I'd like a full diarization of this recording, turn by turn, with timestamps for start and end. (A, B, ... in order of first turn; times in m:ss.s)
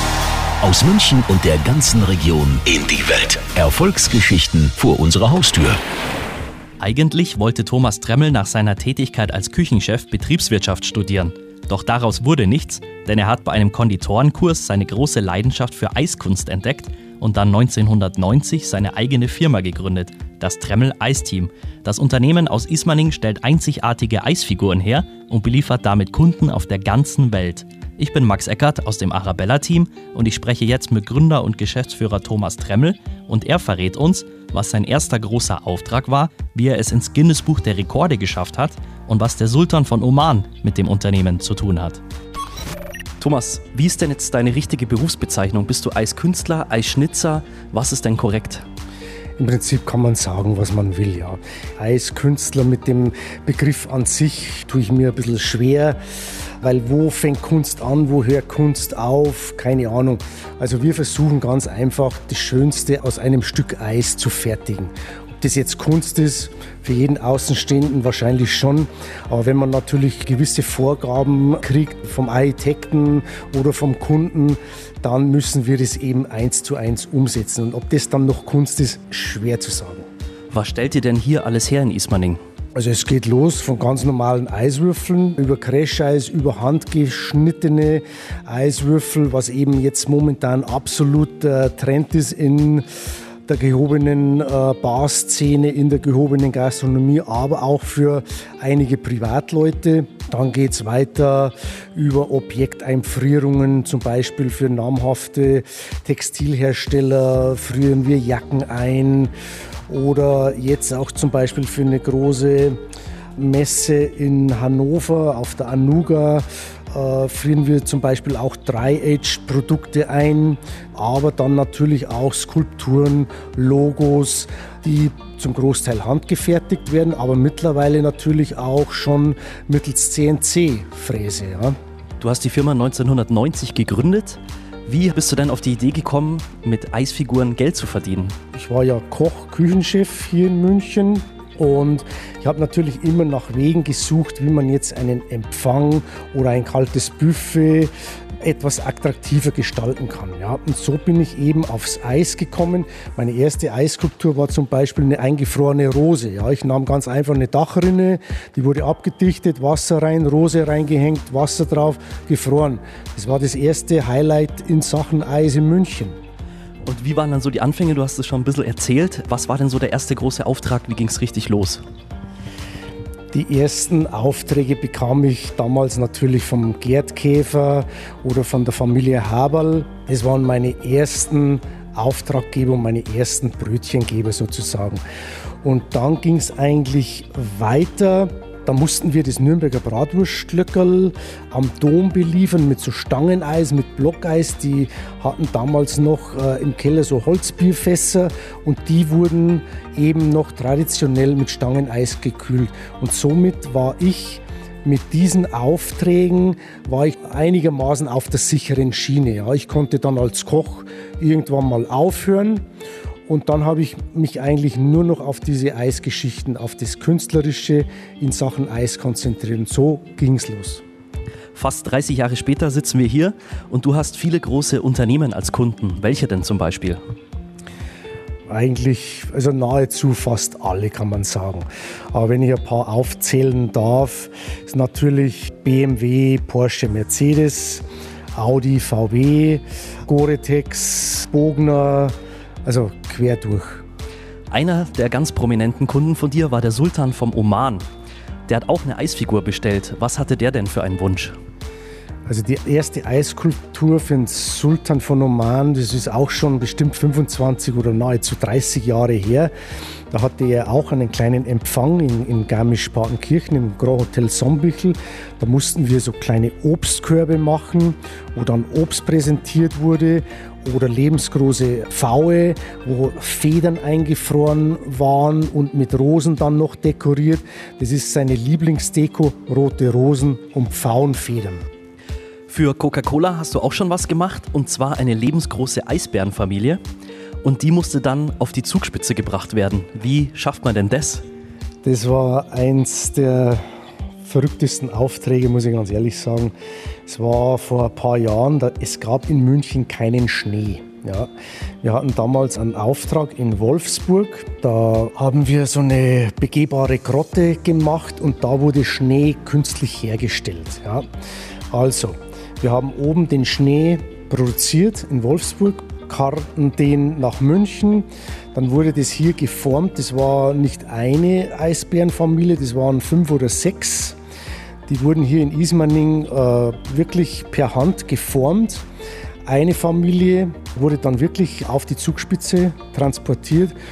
0:00.6-0:05.8 A
0:06.8-0:42.0 B
0:43.2-0:48.6 B
0:49.4-0:56.0 C
0:56.6-1:20.1 C
1:20.5-1:22.4 B
1:22.7-1:32.8 C
1:33.4-1:49.3 C
1:49.9-1:52.8 C
1:53.4-2:11.8 C
2:12.2-2:18.3 B
2:18.5-2:46.2 C
2:46.8-2:51.8 B
2:53.3-3:05.0 C
3:05.6-3:32.6 C
3:33.3-3:40.8 C
3:41.5-3:47.0 B
3:48.5-4:02.1 C
4:02.6-4:03.8 C
4:04.5-4:07.8 B
4:08.5-4:11.3 B
4:12.2-4:19.5 C
4:20.1-4:41.6 C
4:42.5-4:46.8 B
4:47.4-4:51.2 B
4:51.8-4:53.6 C
4:54.2-4:56.5 C
4:57.0-5:01.3 C
5:01.8-5:11.1 C
5:11.7-5:24.2 C
5:24.9-5:28.8 C
5:29.4-5:33.8 C